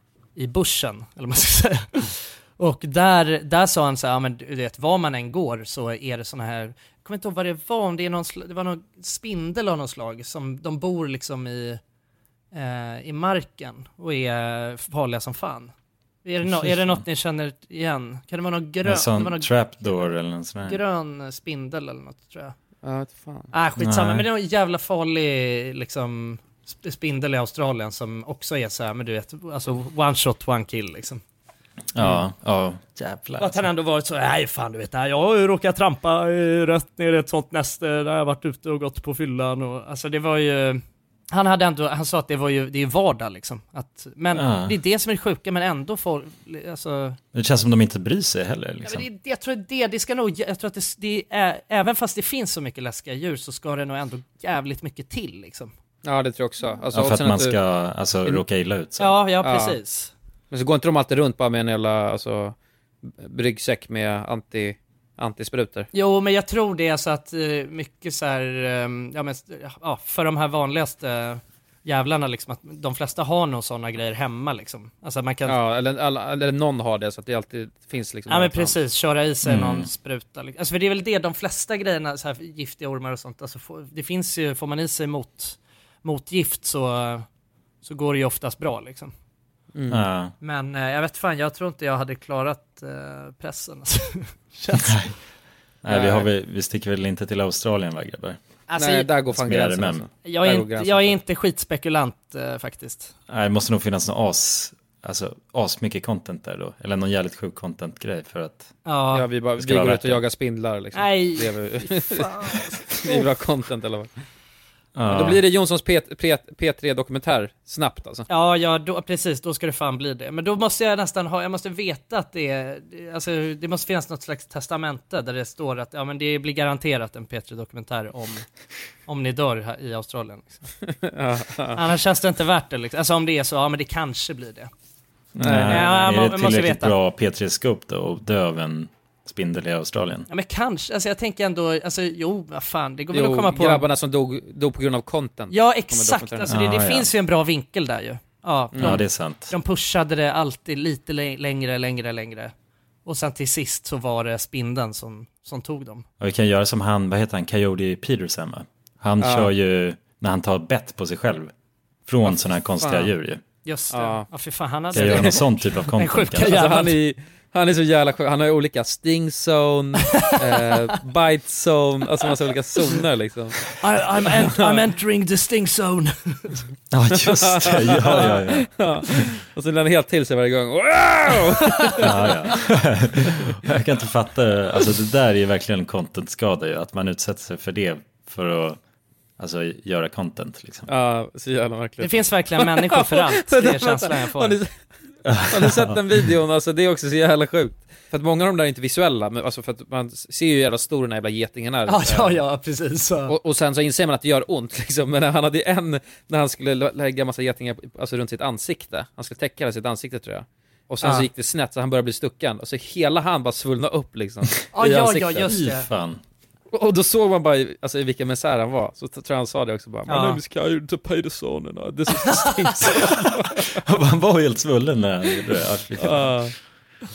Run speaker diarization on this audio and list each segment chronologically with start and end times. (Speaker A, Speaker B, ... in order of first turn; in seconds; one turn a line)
Speaker A: 0.3-11.8
Speaker A: 12.5-15.7
Speaker A: 16.2-20.1
Speaker B: 16.5-17.0
Speaker B: 18.8-20.8
Speaker A: 20.6-22.5
Speaker C: 22.8-23.5
Speaker A: 23.5-31.2
Speaker B: 23.8-24.3
Speaker B: 31.9-33.6
Speaker A: 33.4-47.2
Speaker B: 44.3-44.7
Speaker B: 47.3-49.1
Speaker A: 48.8-55.7
Speaker C: 56.0-57.6
Speaker B: 56.9-59.2
Speaker A: 59.0-60.1
Speaker C: 59.4-59.8
Speaker C: 60.5-62.5
Speaker C: 63.1-65.9
Speaker A: 65.9-75.5
Speaker C: 75.5-78.8
Speaker A: 78.3-87.2
Speaker B: 79.4-79.9
Speaker A: 87.8-89.1
Speaker C: 89.7-90.0
Speaker B: 89.9-90.3
Speaker A: 90.4-95.0
Speaker B: 94.8-95.1
Speaker B: 95.8-98.4
Speaker C: 95.9-96.3
Speaker A: 98.7-99.1
Speaker C: 98.8-101.2
Speaker B: 99.3-100.0
Speaker A: 100.2-103.1
Speaker B: 103.3-108.7
Speaker A: 108.8-109.3
Speaker C: 109.1-114.1
Speaker B: 109.6-110.2
Speaker A: 110.9-113.2
Speaker B: 115.0-115.4
Speaker C: 115.1-118.3
Speaker A: 118.3-128.4
Speaker A: 129.1-130.7
Speaker C: 130.8-131.8
Speaker A: 131.7-134.7
Speaker B: 135.3-140.3
Speaker C: 135.4-136.1
Speaker A: 135.7-136.9
Speaker A: 140.3-143.8
Speaker C: 143.1-146.5
Speaker A: 145.5-152.5
Speaker B: 146.5-147.1
Speaker C: 148.7-149.0
Speaker B: 148.8-149.5
Speaker A: 153.0-156.0
Speaker B: 156.2-161.5
Speaker C: 159.2-159.5
Speaker B: 162.1-163.4
Speaker C: 162.2-163.1
Speaker A: 163.6-166.9
Speaker C: 163.9-164.3
Speaker C: 164.9-165.4
Speaker B: 164.9-166.6
Speaker C: 166.4-173.7
Speaker A: 170.1-170.8
Speaker A: 173.8-176.7
Speaker C: 174.3-174.8
Speaker B: 176.9-178.8
Speaker C: 177.3-182.3
Speaker A: 181.6-182.0
Speaker B: 182.0-188.8
Speaker B: 189.4-190.9
Speaker C: 190.9-194.7
Speaker A: 192.0-194.6
Speaker B: 195.2-196.3
Speaker C: 195.5-202.4
Speaker A: 201.9-203.3
Speaker C: 203.3-215.5
Speaker A: 211.0-211.3
Speaker A: 214.7-215.9
Speaker B: 215.4-216.2
Speaker C: 216.7-223.6
Speaker A: 220.1-220.4
Speaker A: 222.1-222.9
Speaker B: 222.8-226.5
Speaker C: 226.0-226.5